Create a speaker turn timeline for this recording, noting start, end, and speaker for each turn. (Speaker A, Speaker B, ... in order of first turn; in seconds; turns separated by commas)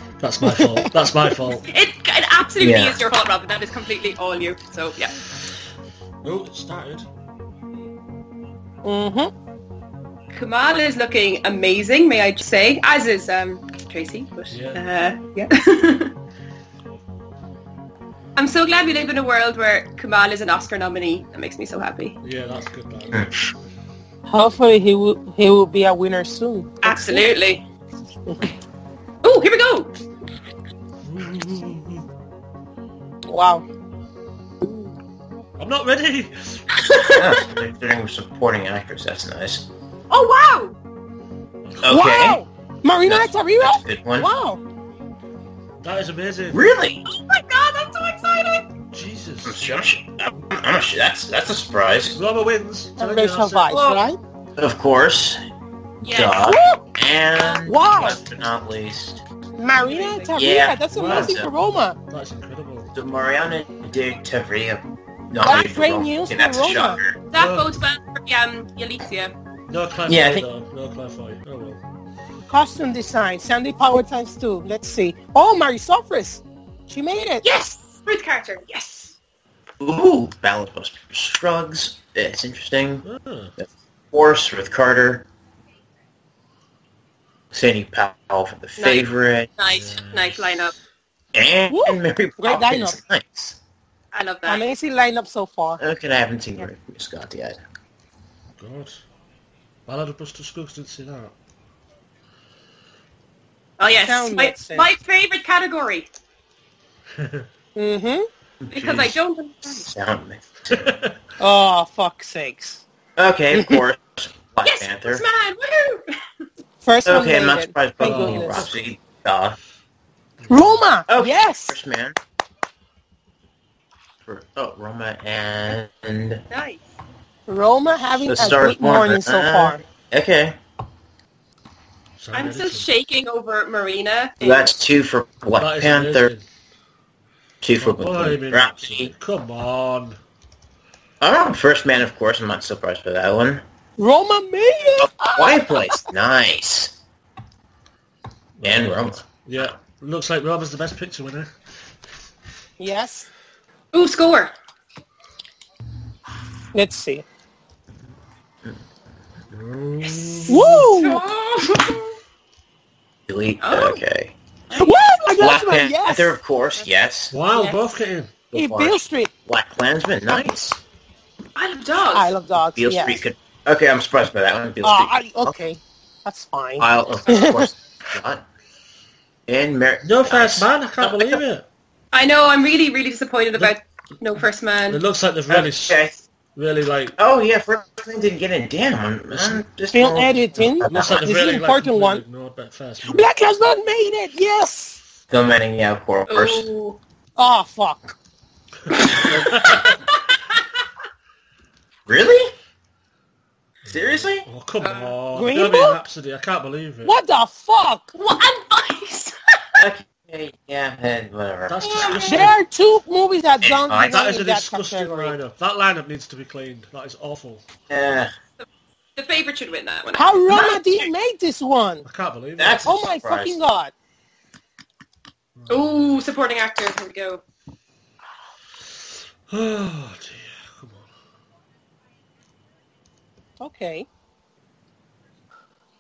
Speaker A: 0.2-1.7, Speaker B: 0.5-1.5, Speaker C: 1.7-5.2, Speaker D: 2.6-3.0, Speaker A: 6.2-7.1, Speaker B: 8.8-9.3, Speaker C: 10.3-16.1, Speaker A: 14.5-14.8, Speaker C: 18.4-22.1, Speaker A: 22.2-23.3, Speaker B: 24.3-27.4, Speaker C: 26.8-27.6, Speaker C: 29.2-29.9, Speaker A: 31.0-32.1, Speaker B: 33.3-33.6, Speaker A: 35.6-36.8, Speaker C: 36.8-37.5, Speaker D: 37.1-39.7, Speaker C: 40.1-40.8, Speaker A: 41.6-42.0, Speaker D: 41.8-42.4, Speaker B: 41.9-44.6, Speaker D: 43.0-44.3, Speaker A: 45.8-46.6, Speaker D: 46.5-47.1, Speaker C: 47.1-48.7, Speaker A: 48.9-49.8, Speaker D: 49.5-52.2, Speaker A: 52.1-53.8, Speaker B: 53.0-54.2, Speaker C: 53.7-54.0, Speaker D: 54.6-55.4, Speaker C: 56.0-56.5, Speaker D: 56.0-59.2, Speaker B: 56.4-56.9, Speaker B: 57.7-58.2, Speaker B: 59.6-62.0, Speaker C: 59.8-60.4, Speaker D: 60.4-61.5, Speaker A: 60.9-61.4, Speaker A: 62.1-62.9, Speaker D: 63.0-67.2, Speaker B: 65.4-67.0, Speaker C: 67.3-69.3, Speaker A: 67.4-67.8, Speaker A: 69.7-71.8, Speaker D: 70.1-70.5, Speaker B: 72.5-77.5, Speaker C: 77.4-79.2, Speaker D: 79.8-83.1, Speaker A: 83.0-83.5, Speaker D: 83.6-85.3, Speaker D: 87.5-89.5, Speaker C: 88.8-89.0, Speaker C: 89.6-90.7, Speaker A: 89.7-90.8, Speaker D: 91.3-93.6, Speaker B: 91.7-93.0, Speaker C: 94.1-94.6, Speaker B: 94.5-95.8, Speaker D: 95.8-97.6, Speaker A: 98.6-99.0, Speaker A: 99.9-101.3, Speaker C: 103.8-106.1, Speaker B: 104.0-104.9, Speaker A: 107.2-107.5, Speaker B: 107.8-108.3, Speaker D: 108.6-111.0, Speaker C: 108.7-109.9, Speaker A: 110.7-111.2, Speaker B: 111.4-112.8, Speaker D: 113.2-115.2, Speaker B: 113.5-113.8, Speaker C: 114.7-116.0, Speaker B: 116.8-118.7, Speaker D: 117.0-119.6, Speaker A: 118.0-118.7, Speaker A: 120.4-120.8, Speaker B: 120.5-121.8, Speaker D: 121.1-122.2, Speaker D: 124.2-126.4, Speaker C: 126.5-126.9, Speaker B: 127.5-129.8, Speaker D: 128.2-130.6, Speaker A: 132.2-132.9, Speaker C: 132.3-134.7, Speaker D: 134.4-136.3, Speaker A: 135.6-136.4, Speaker D: 137.6-139.1, Speaker A: 137.8-140.2, Speaker D: 141.2-143.6, Speaker B: 144.0-146.0, Speaker D: 145.2-146.9, Speaker A: 148.6-151.5, Speaker D: 148.6-149.2, Speaker B: 152.8-153.3, Speaker C: 153.9-154.5, Speaker B: 156.7-157.2, Speaker A: 159.5-161.0, Speaker C: 160.0-162.2, Speaker B: 160.5-161.2, Speaker D: 163.3-164.3, Speaker C: 163.6-164.0, Speaker B: 164.7-166.4, Speaker D: 165.4-167.3, Speaker A: 167.3-168.3, Speaker C: 167.5-167.9, Speaker D: 168.5-170.8, Speaker B: 168.5-169.3, Speaker C: 171.6-172.3, Speaker B: 172.1-173.2, Speaker D: 172.6-175.6, Speaker B: 174.8-177.7, Speaker D: 176.8-178.4, Speaker D: 179.5-181.4, Speaker A: 180.0-181.7, Speaker C: 182.1-185.0, Speaker A: 184.9-186.0, Speaker D: 185.5-186.2, Speaker A: 186.6-187.2, Speaker D: 187.2-191.2, Speaker A: 189.3-189.6, Speaker B: 189.9-192.2, Speaker A: 190.7-193.3, Speaker B: 193.0-195.0, Speaker D: 195.3-196.7, Speaker C: 196.3-197.0, Speaker B: 197.4-198.1, Speaker A: 198.9-200.0, Speaker C: 199.0-200.7, Speaker D: 202.1-202.5, Speaker A: 203.8-207.1, Speaker D: 203.9-204.5, Speaker C: 204.8-205.2, Speaker B: 205.3-206.0, Speaker B: 207.0-208.1, Speaker C: 208.2-209.8, Speaker D: 209.8-211.8, Speaker A: 211.7-212.6, Speaker C: 211.9-212.5, Speaker B: 212.1-215.4, Speaker D: 213.6-214.2, Speaker A: 214.0-217.6, Speaker D: 217.9-218.3, Speaker C: 218.6-220.8, Speaker B: 220.2-222.1, Speaker A: 222.0-222.9, Speaker D: 222.6-223.6, Speaker B: 222.8-223.9, Speaker A: 225.6-226.2, Speaker C: 225.7-227.4, Speaker A: 229.5-231.1, Speaker B: 233.6-234.1